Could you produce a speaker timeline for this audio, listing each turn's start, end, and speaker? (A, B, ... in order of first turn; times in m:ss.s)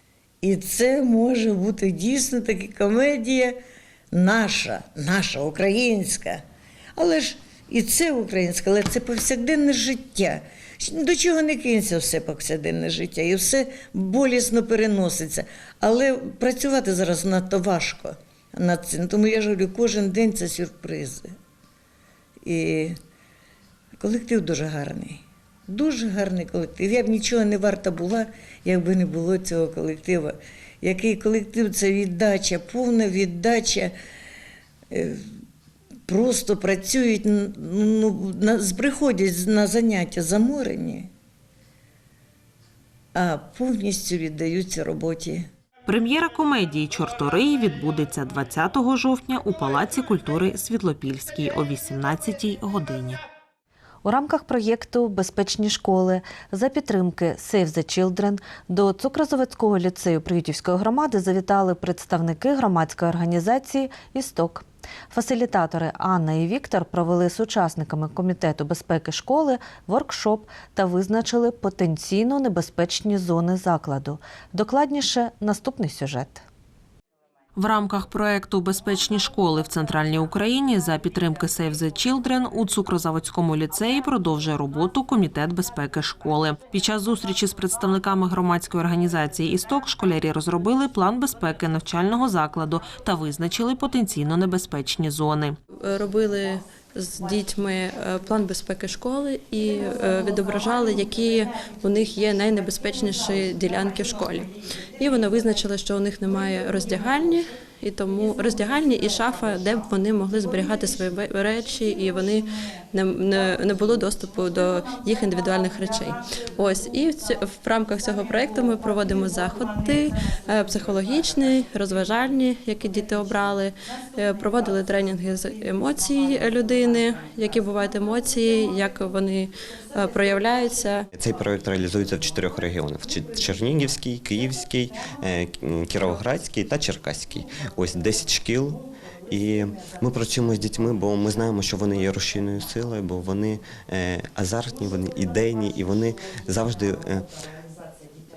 0:00.4-0:03.6 A
0:04.1-0:06.4 A
0:07.0-0:21.3 A
0:22.4-0:23.0 A
0:24.0-0:33.9 A
0:34.9-0:35.2 A
0:36.1-0:41.1 A
0:43.2-0:45.5 A
0:45.9-0:53.2 B
0:54.0-1:16.5 C
1:17.6-1:35.6 B
1:35.8-2:11.0 D
2:11.2-2:27.3 E